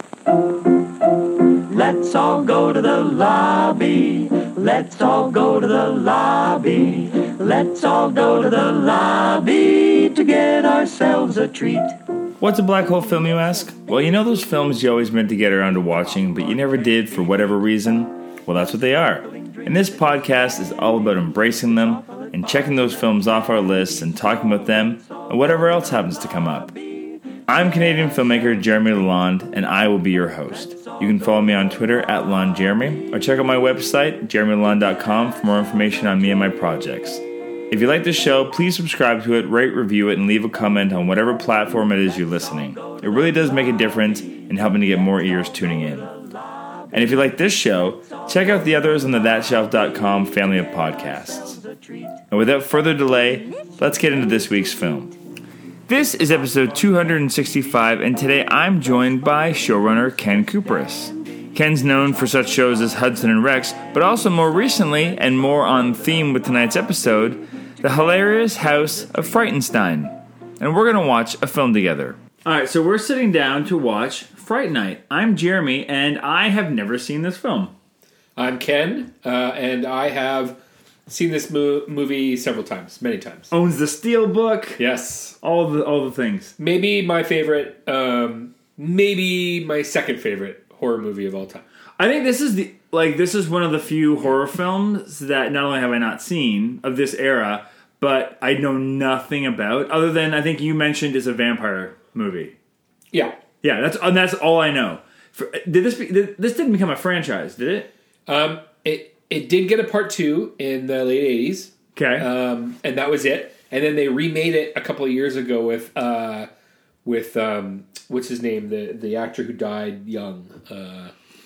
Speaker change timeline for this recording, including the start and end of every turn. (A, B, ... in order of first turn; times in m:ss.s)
0:01.7-0:12.0 A
0:12.4-0:26.7 B
0:27.5-0:46.1 B
0:46.9-0:51.6 B
0:52.3-0:55.2 B
0:55.9-1:17.7 B
1:18.4-1:23.5 C
1:23.5-1:24.8 B
1:24.8-1:25.4 C
1:25.4-1:26.5 B
1:26.6-1:31.6 C
1:32.0-1:42.6 B
1:43.1-1:43.4 C
1:43.6-1:47.9 B
1:48.3-1:56.5 C
1:52.0-1:52.3 B
1:57.0-2:01.1 C